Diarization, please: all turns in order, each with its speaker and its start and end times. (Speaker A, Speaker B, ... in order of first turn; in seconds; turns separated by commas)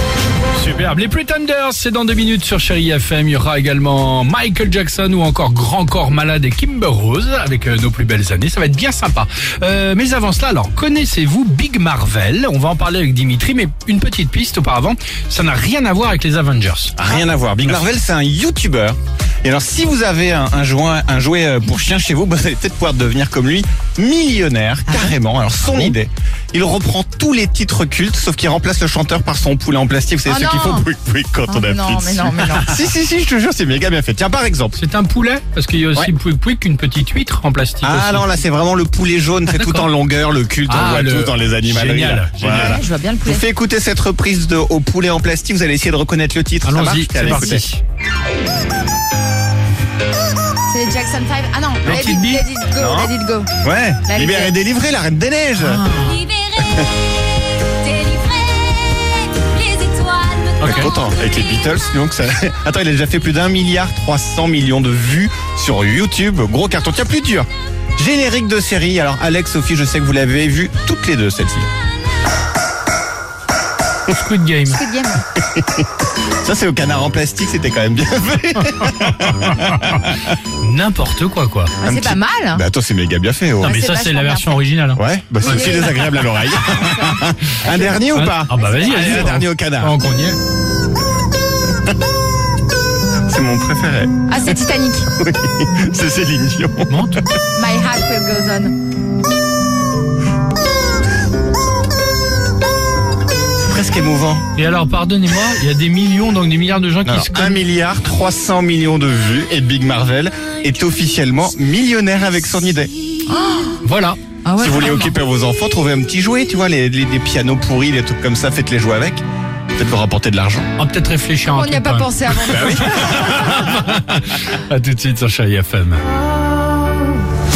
Speaker A: 0.5-17.0, Speaker B: 16.9-34.8, Speaker C: 24.9-25.1, Speaker A: 25.6-25.9, Speaker C: 30.2-30.9, Speaker C: 31.5-32.7, Speaker A: 34.8-38.3, Speaker B: 37.8-47.6, Speaker A: 39.5-39.9, Speaker A: 40.7-42.8, Speaker C: 42.4-43.4, Speaker A: 46.6-47.8, Speaker C: 50.6-53.5, Speaker A: 51.8-52.4, Speaker B: 52.7-55.9, Speaker C: 54.0-54.5, Speaker A: 55.6-56.2, Speaker D: 56.0-60.7, Speaker A: 60.6-60.9, Speaker B: 60.6-71.7, Speaker A: 74.1-74.8, Speaker C: 74.7-75.2, Speaker B: 75.4-80.3, Speaker A: 79.4-81.7, Speaker C: 81.8-82.6, Speaker B: 81.8-83.7, Speaker C: 83.6-84.7, Speaker A: 83.6-85.8, Speaker B: 85.0-89.9, Speaker C: 85.4-89.3, Speaker A: 88.1-90.4, Speaker B: 93.3-94.6, Speaker C: 94.3-95.1, Speaker B: 95.1-97.1, Speaker A: 96.9-97.2, Speaker C: 97.5-98.7, Speaker B: 103.6-104.4, Speaker A: 104.5-107.6, Speaker B: 107.0-112.9, Speaker C: 113.3-113.8, Speaker A: 113.8-114.2, Speaker C: 114.4-115.2, Speaker B: 114.6-119.2, Speaker B: 119.7-120.7, Speaker A: 120.8-126.0, Speaker C: 121.4-123.1, Speaker B: 122.4-123.9